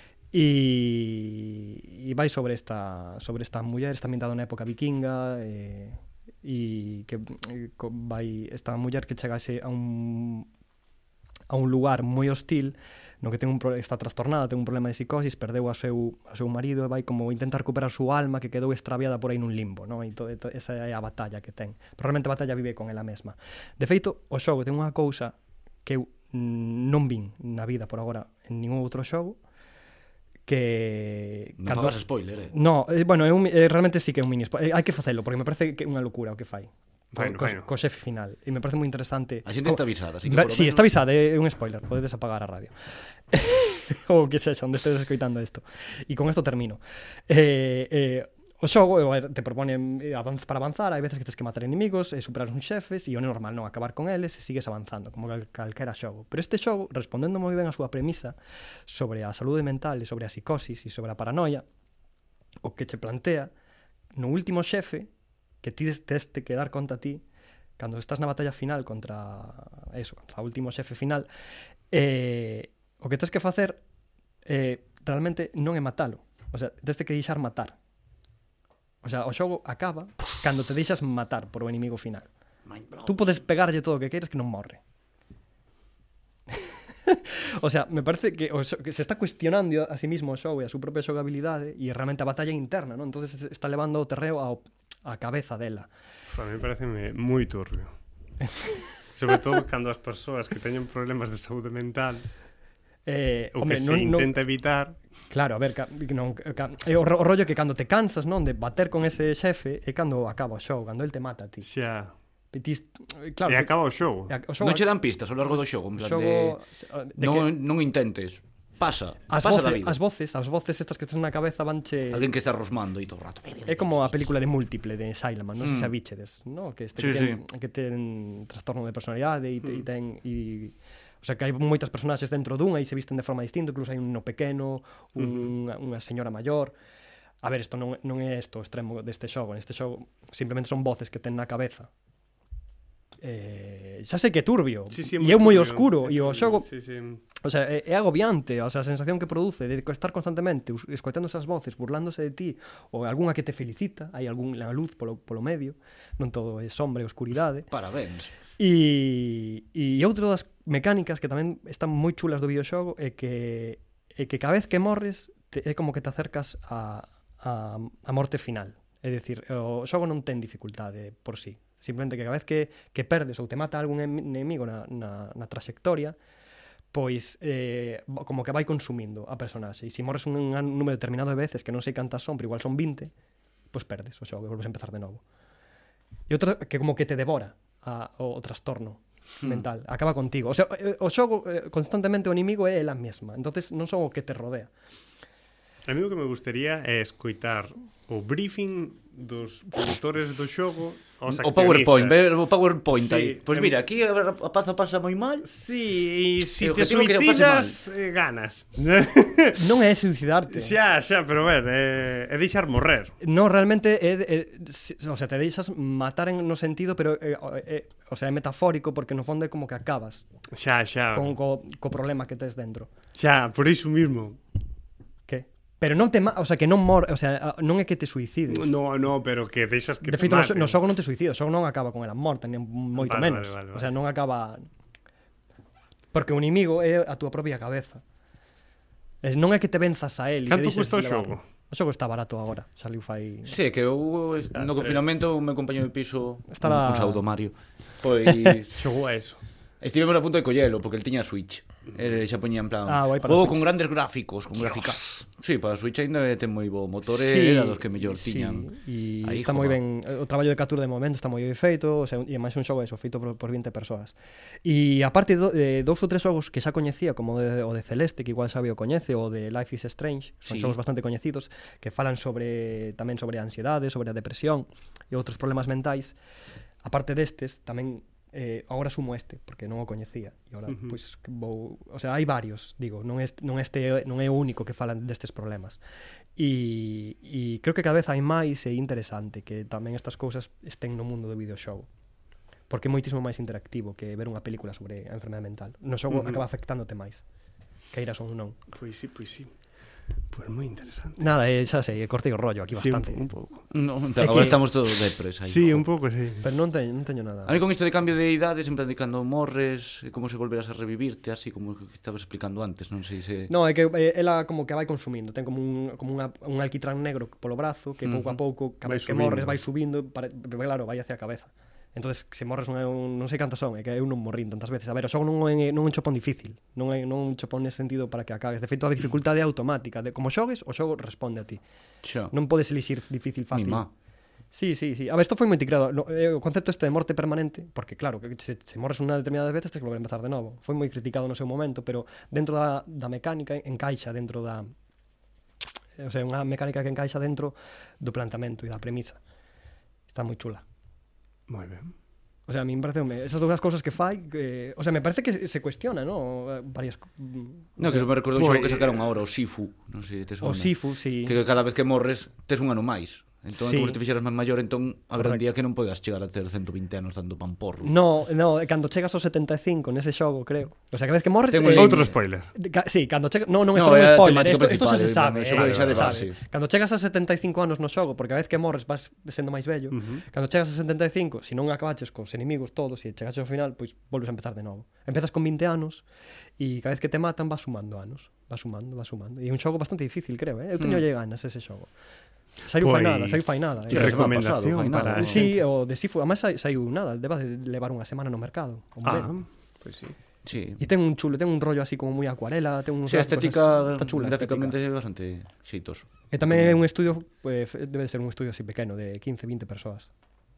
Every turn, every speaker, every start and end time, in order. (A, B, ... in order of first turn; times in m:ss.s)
0:00.3-0:10.5 A
0:11.5-0:29.4 A
0:30.4-0:42.7 A
0:31.6-0:32.5 B
0:37.1-0:37.7 C
0:39.4-0:40.9 B
0:43.3-0:58.3 A
0:58.9-1:01.6 A
1:02.6-1:03.5 A
1:04.2-1:05.1 A
1:05.6-1:07.2 A
1:07.8-1:11.3 A
1:11.9-1:13.8 A
1:14.4-1:17.7 A
1:19.0-1:22.3 A
1:22.7-1:23.2 B
1:23.0-1:24.8 A
1:26.5-1:35.9 A
1:36.3-1:37.9 C
1:39.2-1:42.2 C
1:43.0-1:44.3 A
1:43.5-1:45.0 C
1:45.3-1:51.7 A
1:51.6-1:52.1 C
1:52.5-1:53.7 A
1:53.5-1:54.3 C
1:54.3-1:54.9 A
1:54.6-1:56.6 B
1:55.9-1:57.5 A
1:57.2-2:00.0 B
1:59.3-2:02.3 A
2:02.1-2:04.1 B
2:03.7-2:16.7 A
2:05.6-2:05.9 B
2:07.0-2:07.4 B
2:15.2-2:15.5 C
2:17.4-2:21.9 A
2:23.2-2:26.7 A
2:24.9-2:27.2 C
2:27.4-2:37.7 A
2:37.7-2:38.3 B
2:38.6-2:56.2 A
2:56.9-3:03.1 A
3:03.7-3:05.2 A
3:06.3-3:14.7 A
3:15.8-3:22.3 C
3:21.3-3:25.5 B
3:22.9-3:23.7 C
3:25.4-3:29.6 C
3:26.6-3:27.8 B
3:29.5-3:30.8 A
3:30.5-3:33.2 C
3:33.2-3:40.2 A
3:40.5-3:41.3 C
3:41.1-3:42.9 A
3:43.1-3:44.4 C
3:45.3-3:48.8 A
3:48.5-3:50.8 C
3:50.0-3:54.6 A
3:52.9-3:53.9 C
3:56.1-3:58.0 A
3:59.2-4:03.6 A
4:00.5-4:01.4 C
4:03.4-4:08.7 B
4:04.5-4:05.1 C
4:06.5-4:07.2 A
4:08.7-4:09.4 C
4:09.8-4:18.7 B
4:12.8-4:13.7 A
4:17.1-4:36.2 A
4:19.2-4:19.8 B
4:30.4-4:30.8 B
4:36.8-4:45.8 A
4:40.7-4:40.9 C
4:46.4-4:51.9 A
4:52.7-4:57.2 A
4:56.1-4:56.4 C
4:57.9-4:58.6 A
4:58.7-4:59.5 C
5:00.3-5:01.2 C
5:01.2-5:03.2 A
5:02.8-5:03.6 C
5:03.7-5:05.8 B
5:04.2-5:04.6 A
5:05.4-5:06.4 C
5:06.4-5:07.6 A
5:07.4-5:13.5 B
5:13.5-5:31.6 A
5:18.0-5:18.4 B
5:18.8-5:19.6 C
5:32.0-5:32.3 B
5:32.3-5:33.8 A
5:33.5-5:33.9 B
5:34.5-5:44.7 A
5:46.0-5:49.2 A
5:50.1-5:50.6 A
5:51.5-5:51.9 C
5:52.5-5:58.0 A
5:57.8-6:07.9 B
5:58.3-5:59.0 C
6:00.4-6:01.4 A
6:03.5-6:04.0 A
6:05.2-6:05.4 A
6:07.8-6:26.0 A
6:11.5-6:12.1 B
6:11.6-6:12.5 C
6:13.7-6:16.4 B
6:15.5-6:16.2 C
6:19.9-6:20.2 C
6:26.6-6:31.9 A
6:30.8-6:31.0 B
6:32.6-6:34.3 A
6:32.8-6:35.6 C
6:33.9-6:35.5 B
6:35.2-6:39.3 A
6:39.0-6:40.1 C
6:40.4-6:40.8 B
6:40.8-6:44.8 A
6:43.1-6:46.8 B
6:46.3-6:50.1 A